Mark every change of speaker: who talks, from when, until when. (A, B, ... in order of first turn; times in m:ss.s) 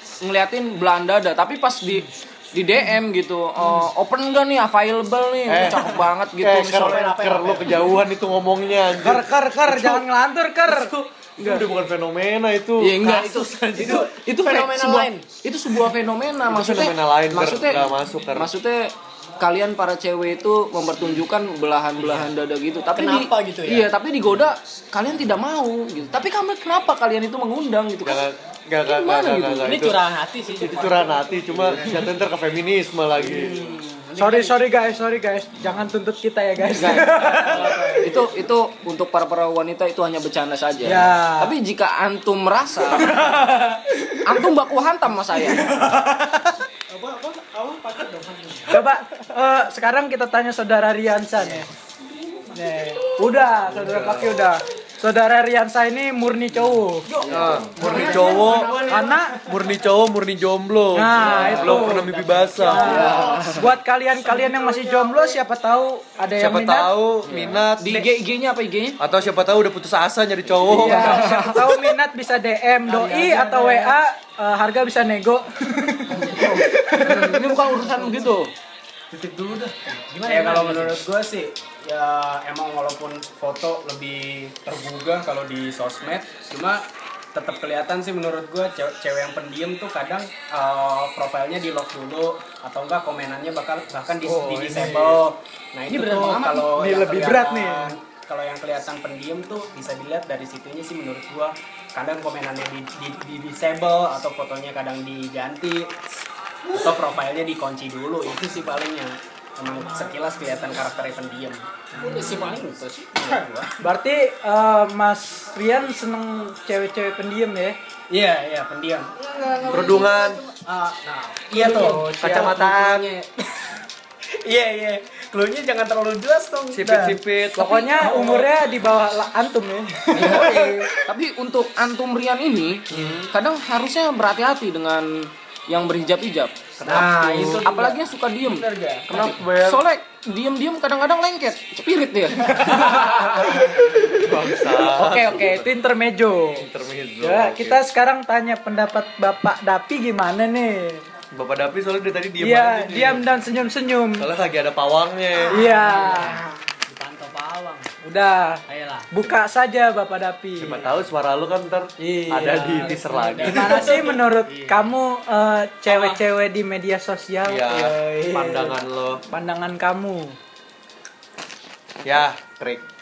0:00.2-0:07.4 A
0:05.4-0:10.0 B
0:06.7-0:08.0 C
0:09.0-0:10.9 D
0:10.6-0:14.1 B
0:12.8-0:28.2 A
0:13.0-0:15.3 C
0:16.4-0:18.5 B
0:22.0-0:22.3 C
0:23.0-0:23.9 C
0:28.0-0:30.0 B
0:28.8-0:29.8 A
0:29.6-0:32.0 C
0:30.5-0:33.6 B
0:33.2-0:34.7 C
0:34.2-0:37.9 D
0:36.7-0:43.4 A
0:37.2-0:37.9 C
0:37.5-0:38.2 E
0:40.8-0:41.5 D
0:42.9-0:44.4 D
0:44.2-0:45.8 A
0:45.5-0:46.4 D
0:46.9-0:48.8 E
0:48.7-0:51.7 D
0:52.5-0:57.1 D
0:53.6-0:54.5 B
0:57.1-0:59.1 E
0:57.2-0:57.8 A
0:57.2-0:58.8 B
0:57.8-0:59.6 C
0:57.8-0:59.5 D
0:59.4-1:03.2 B
1:00.9-1:07.0 D
1:01.1-1:03.2 C
1:01.2-1:01.8 A
1:02.8-1:03.7 A
1:03.1-1:03.5 E
1:04.3-1:05.4 E
1:06.4-1:08.0 B
1:07.2-1:09.0 A
1:09.0-1:11.5 B
1:10.6-1:17.7 D
1:10.8-1:11.7 A
1:12.9-1:13.9 E
1:12.9-1:13.9 C
1:16.1-1:16.6 C
1:16.3-1:18.5 A
1:19.1-1:45.9 E
1:19.9-1:21.0 C
1:34.2-1:35.2 D
1:35.9-1:36.7 C
1:36.6-1:38.0 D
1:46.7-1:53.7 E
1:51.9-1:53.4 C
1:52.0-1:52.4 D
1:53.8-1:57.8 D
1:58.1-2:03.7 E
1:59.7-2:00.4 B
2:01.6-2:02.0 C
2:01.6-2:02.5 D
2:02.2-2:03.1 B
2:04.3-2:07.2 E
2:06.7-2:08.0 B
2:07.5-2:10.9 D
2:07.9-2:08.5 E
2:10.2-2:10.5 A
2:10.2-2:11.0 E
2:11.1-2:23.2 A
2:12.9-2:13.2 E
2:16.8-2:17.6 B
2:16.8-2:19.0 E
2:19.1-2:19.8 B
2:22.5-2:26.6 D
2:23.4-2:25.7 B
2:26.6-2:27.8 B
2:27.2-2:31.0 D
2:31.3-2:33.3 B
2:32.4-2:34.3 D
2:34.2-2:35.8 B
2:35.5-2:36.4 D
2:35.6-2:37.9 C
2:38.0-2:40.9 D
2:38.7-2:39.1 C
2:40.6-2:44.0 B
2:42.0-2:48.8 D
2:42.8-2:44.9 C
2:45.9-2:46.2 C
2:47.4-2:49.2 B
2:49.3-2:50.4 D
2:52.0-2:52.8 B